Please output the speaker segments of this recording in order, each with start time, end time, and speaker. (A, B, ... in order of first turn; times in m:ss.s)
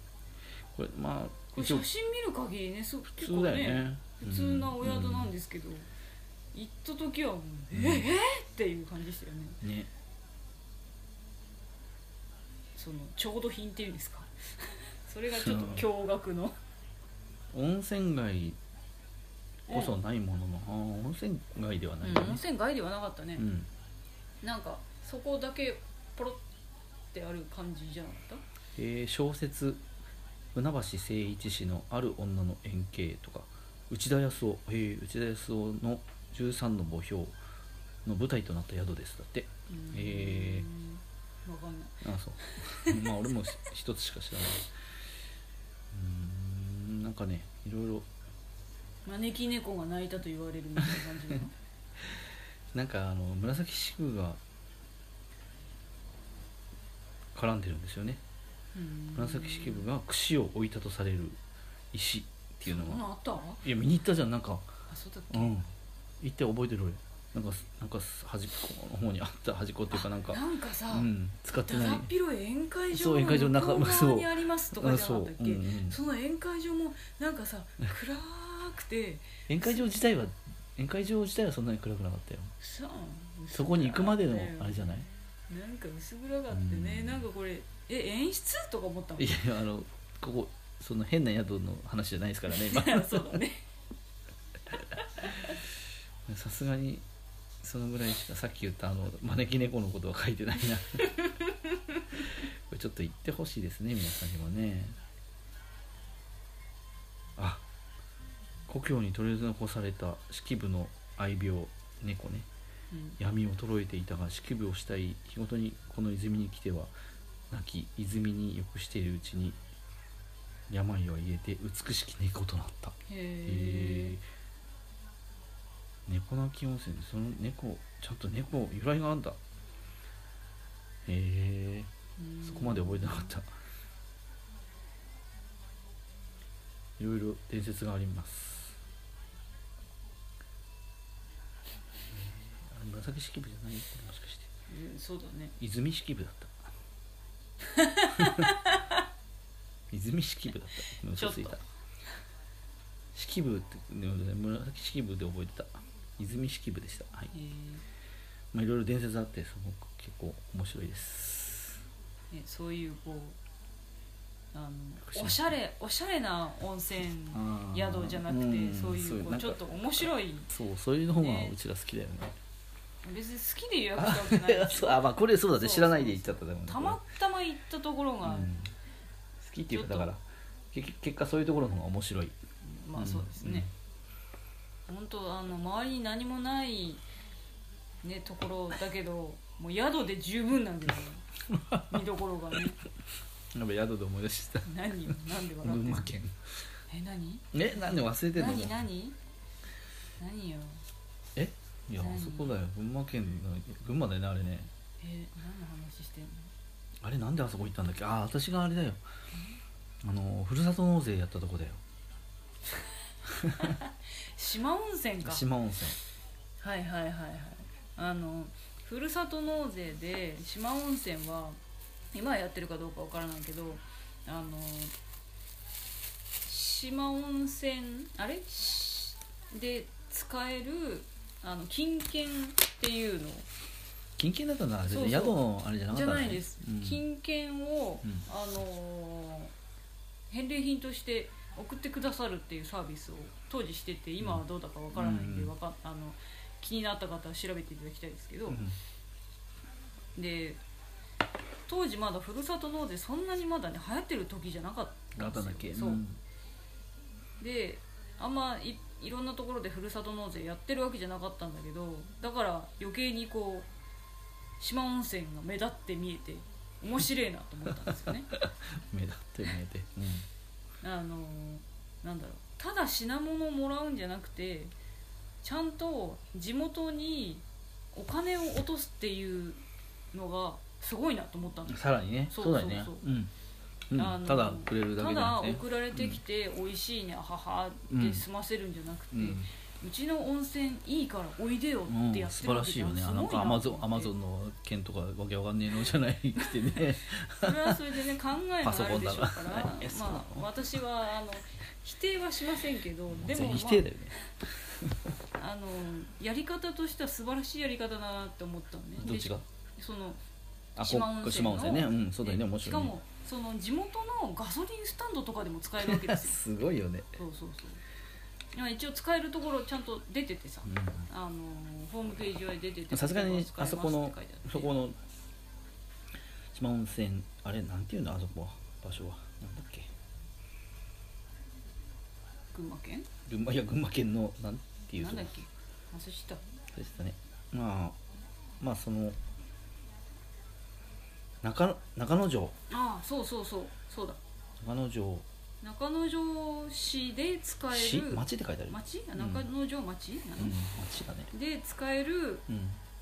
0:00.7-0:01.9 A
0:01.6-0:05.8 B
0:03.1-0:05.3 A
0:06.5-0:09.6 B
0:07.7-0:08.1 A
0:09.6-0:09.9 A
0:12.8-0:16.6 B
0:15.4-0:15.8 A
0:17.5-0:18.6 A
0:19.7-0:20.0 B
0:19.7-0:22.4 A
0:22.0-0:23.5 B
0:23.4-0:23.7 A
0:24.4-0:26.4 B
0:27.1-0:28.4 B
0:28.8-0:29.8 A
0:30.5-0:37.4 A
0:38.0-0:40.7 A
0:39.7-0:43.3 B
0:42.0-0:44.7 A
0:45.9-0:48.1 A
0:49.0-0:51.5 B
0:52.7-0:54.4 A
0:57.3-0:58.2 A
0:58.7-0:59.9 B
0:59.1-1:01.4 A
1:01.9-1:03.0 A
1:02.6-1:03.6 B
1:03.6-1:04.6 A
1:04.9-1:05.6 B
1:05.3-1:05.7 A
1:06.2-1:12.1 A
1:09.9-1:20.0 B
1:12.9-1:16.0 A
1:19.5-1:22.5 A
1:22.6-1:29.3 B
1:23.5-1:25.1 A
1:26.5-1:27.2 A
1:29.2-1:33.4 A
1:32.5-1:33.6 B
1:35.0-1:35.6 B
1:36.3-1:37.0 A
1:37.6-1:41.1 A
1:41.0-1:42.2 B
1:42.3-1:45.0 A
1:47.4-1:47.6 A
1:48.7-1:52.5 A
1:52.9-1:53.2 B
1:53.2-1:56.9 A
1:57.5-1:59.6 A
2:00.7-2:04.2 A
2:03.0-2:04.2 B
2:06.0-2:09.4 A
2:11.0-2:11.9 A
2:12.2-2:13.4 B
2:12.4-2:13.5 A
2:17.0-2:18.8 A
2:22.1-2:24.5 A
2:24.7-2:25.6 B
2:25.6-2:26.7 A
2:27.6-2:29.0 B
2:29.9-2:31.6 A
2:31.1-2:31.6 B
2:33.1-2:37.3 A
2:37.3-2:37.8 B
2:38.5-2:41.8 A
2:42.3-2:43.4 B
2:44.5-2:50.5 B
2:45.0-2:45.5 A
2:47.3-2:52.3 A
2:51.2-2:51.6 B
2:53.0-2:58.5 B
2:54.0-2:57.0 A
2:58.2-2:58.7 A
2:59.4-3:02.4 A
2:59.7-3:00.1 B
3:02.6-3:03.7 B
3:03.0-3:03.7 A
3:04.9-3:07.0 B
3:08.0-3:11.2 B
3:11.5-3:12.0 A
3:11.9-3:12.8 B
3:13.5-3:16.5 A
3:14.6-3:16.1 B
3:16.9-3:19.2 B
3:17.5-3:18.8 A
3:20.2-3:20.8 B
3:21.4-3:24.7 A
3:22.0-3:22.5 B
3:25.0-3:26.5 B
3:27.0-3:29.0 A
3:30.0-3:31.8 A
3:33.2-3:33.8 A
3:33.6-3:35.4 B
3:35.2-3:36.0 A
3:36.6-3:41.6 B
3:42.1-3:44.9 B
3:46.4-3:53.5 B
3:54.2-3:57.0 A
3:54.9-3:59.5 B
4:00.3-4:08.6 B
4:04.2-4:05.5 A
4:08.5-4:08.8 A
4:10.2-4:10.6 B
4:11.7-4:16.0 B
4:15.2-4:16.2 A
4:17.4-4:23.7 B
4:24.6-4:28.3 B
4:27.8-4:30.3 A
4:30.8-4:34.7 B
4:35.4-4:39.6 B
4:40.1-4:43.1 B
4:41.7-4:43.3 A
4:43.9-4:46.2 A
4:43.9-4:54.1 B
4:47.9-4:48.2 A
4:49.1-4:49.5 A
4:51.9-4:57.8 A
4:57.3-5:04.3 B
4:58.6-5:00.7 A
5:03.1-5:04.1 A
5:05.3-5:10.2 B
5:09.0-5:09.4 A
5:10.8-5:12.9 A
5:10.8-5:16.4 B
5:15.8-5:17.2 A
5:17.2-5:17.8 B
5:18.5-5:24.7 B
5:20.7-5:21.1 A
5:22.9-5:25.0 A
5:26.5-5:29.9 A
5:32.5-5:33.1 B
5:33.2-5:35.3 A
5:35.0-5:36.4 B
5:36.7-5:38.0 A
5:38.6-5:39.2 A
5:41.4-5:42.5 A
5:42.7-5:44.2 B
5:44.6-5:45.2 A
5:45.6-5:50.6 B
5:47.7-5:49.4 A
5:50.4-5:51.3 A
5:51.3-5:52.5 B
5:52.5-5:52.8 A